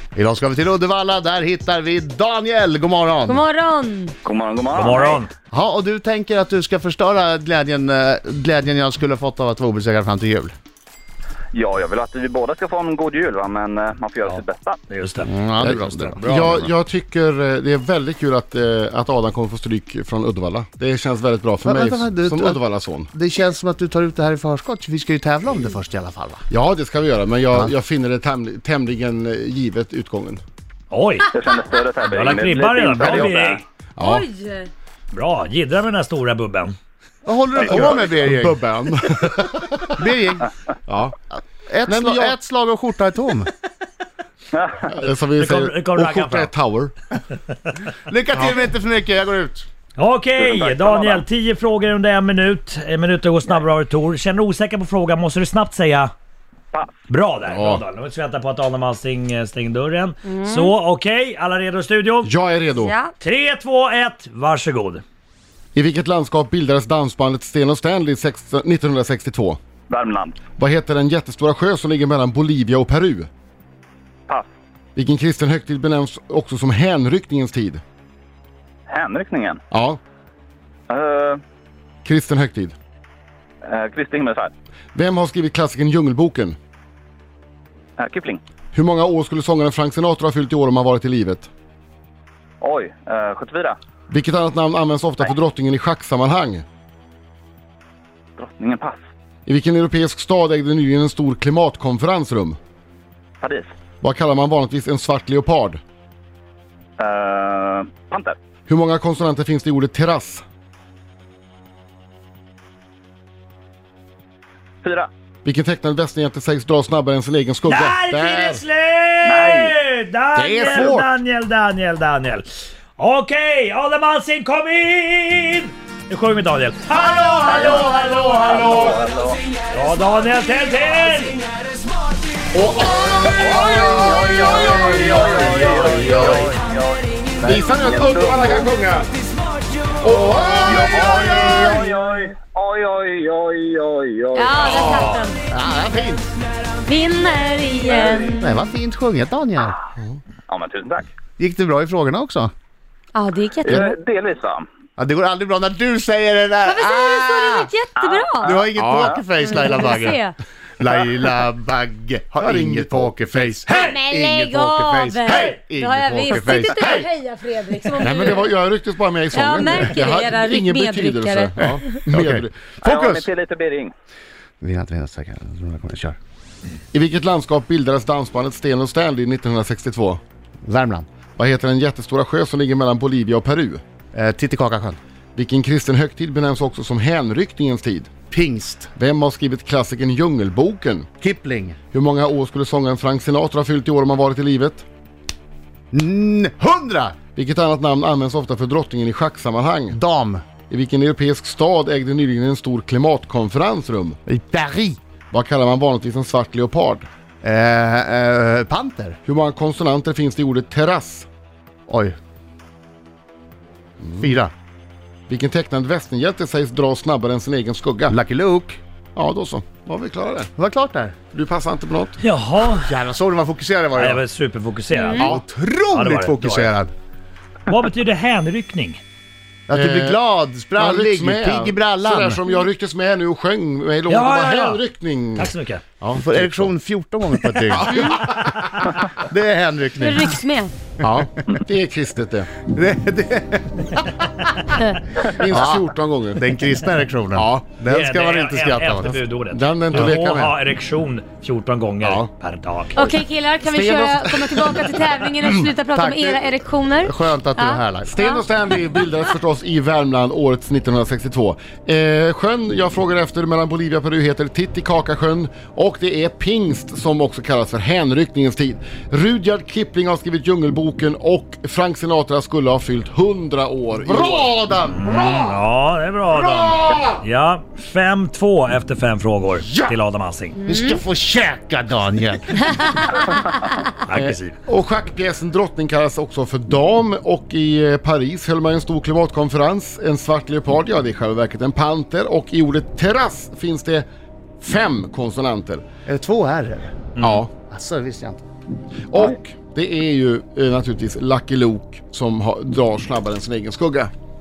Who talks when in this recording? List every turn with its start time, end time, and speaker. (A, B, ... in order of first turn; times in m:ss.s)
0:00.2-0:03.4 A
0:03.3-0:04.2 B
0:04.2-0:05.2 C
0:04.8-0:05.3 D
0:05.5-0:10.6 A
0:11.5-0:14.8 C
0:14.3-0:15.3 D
0:15.2-0:16.7 A
0:15.6-0:23.1 E
0:21.6-0:22.6 A
0:23.1-0:26.4 A
0:26.5-0:30.4 E
0:30.9-0:31.3 D
0:31.3-0:33.6 C
0:32.0-0:33.6 D
0:34.0-0:34.3 E
0:34.0-0:34.7 B
0:35.1-0:36.8 D
0:37.3-0:38.6 A
0:37.6-0:40.1 E
0:40.0-0:40.5 A
0:40.9-0:41.2 E
0:41.4-0:43.5 A
0:41.9-0:42.4 E
0:44.5-0:44.8 C
0:44.9-0:46.9 E
0:45.4-0:46.5 D
0:48.1-0:49.7 A
0:50.0-0:56.1 D
0:50.4-0:51.2 C
0:57.1-1:02.3 D
0:57.4-0:57.8 E
1:00.2-1:00.7 B
1:02.2-1:02.9 E
1:02.8-1:03.1 B
1:03.2-1:05.0 D
1:05.8-1:09.6 E
1:09.9-1:10.4 C
1:10.6-1:13.3 E
1:15.0-1:17.8 E
1:18.9-1:19.6 C
1:19.7-1:20.0 E
1:20.9-1:21.4 C
1:22.0-1:22.8 E
1:23.6-1:24.5 C
1:25.0-1:26.6 E
1:28.0-1:28.4 C
1:28.7-1:31.5 E
1:32.6-1:33.8 C
1:34.1-1:36.6 E
1:38.4-1:39.0 C
1:39.5-1:42.6 E
1:43.4-1:43.7 C
1:44.0-1:45.8 E
1:47.0-1:48.4 C
1:48.7-1:50.4 E
1:54.8-1:55.1 C
1:55.4-1:58.6 E
1:57.7-2:09.0 D
1:59.2-1:59.7 C
2:00.4-2:01.1 A
2:07.4-2:09.4 C
2:07.7-2:08.9 E
2:09.7-2:11.4 D
2:12.5-2:16.5 E
2:13.2-2:18.7 C
2:14.7-2:16.5 D
2:17.4-2:19.1 E
2:20.0-2:21.8 E
2:20.5-2:21.7 A
2:20.6-2:25.2 C
2:24.3-2:25.4 B
2:24.6-2:25.2 E
2:25.5-2:26.3 A
2:26.9-2:28.6 B
2:27.8-2:28.4 C
2:28.4-2:29.8 A
2:30.5-2:31.1 C
2:31.4-2:32.5 A
2:33.2-2:34.0 B
2:33.7-2:34.7 C
2:35.0-2:37.7 A
2:36.6-2:38.6 B
2:38.0-2:39.3 C
2:38.4-2:40.2 A
2:38.7-2:39.2 E
2:39.3-2:40.4 B
2:40.8-2:47.0 A
2:42.4-2:43.6 E
2:43.7-2:48.5 B
2:48.0-2:52.6 E
2:49.3-2:52.1 B
2:51.6-2:53.2 A
2:52.8-2:53.9 C
2:54.6-2:56.2 A
2:56.9-3:00.2 E
3:00.6-3:01.1 A
3:01.4-3:03.8 E
3:04.1-3:05.0 A
3:05.4-3:08.1 E
3:08.3-3:08.9 A
3:09.0-3:11.1 E
3:11.2-3:11.8 A
3:11.9-3:14.9 E
3:15.9-3:17.2 A
3:17.4-3:20.0 E
3:19.9-3:20.4 A
3:20.7-3:24.2 E
3:24.3-3:25.0 A
3:25.3-3:27.1 E
3:27.4-3:29.2 A
3:29.2-3:31.3 E
3:31.9-3:32.2 A
3:34.0-3:34.4 E
3:34.2-3:34.5 A
3:35.3-3:38.2 E
3:38.1-3:38.8 A
3:39.2-3:40.5 E
3:40.6-3:41.2 A
3:41.3-3:42.2 E
3:42.2-3:42.9 D
3:42.8-3:44.2 A
3:44.0-3:45.3 D
3:44.9-3:45.3 B
3:45.2-3:45.4 E
3:45.2-3:46.9 A
3:45.9-3:46.8 D
3:47.7-3:49.0 D
3:49.7-3:52.4 A
3:49.7-3:50.2 E
3:50.8-3:56.7 E
3:54.1-3:54.8 D
3:55.4-3:55.8 D
3:56.1-3:58.1 A
3:57.4-3:58.9 E
3:57.9-3:58.2 B
3:59.2-4:00.4 A
4:00.0-4:00.7 B
4:01.0-4:02.5 E
4:02.7-4:04.0 A
4:05.2-4:09.2 A
4:05.2-4:06.5 E
4:07.3-4:07.7 E
4:07.9-4:13.0 D
4:09.0-4:10.6 E
4:12.0-4:12.3 E
4:13.0-4:18.4 B
4:13.6-4:15.7 E
4:16.0-4:18.2 A
4:18.1-4:34.5 E
4:34.0-4:35.5 A
4:34.9-4:40.6 D
4:36.3-4:37.1 E
4:40.6-4:41.0 B
4:40.7-4:43.2 A
4:44.0-4:44.6 D
4:44.1-4:54.1 E
4:54.6-4:55.8 E
4:56.1-4:57.0 A
4:57.2-4:57.4 D
4:57.2-4:57.5 E
4:57.7-4:58.4 A
4:59.1-5:04.1 E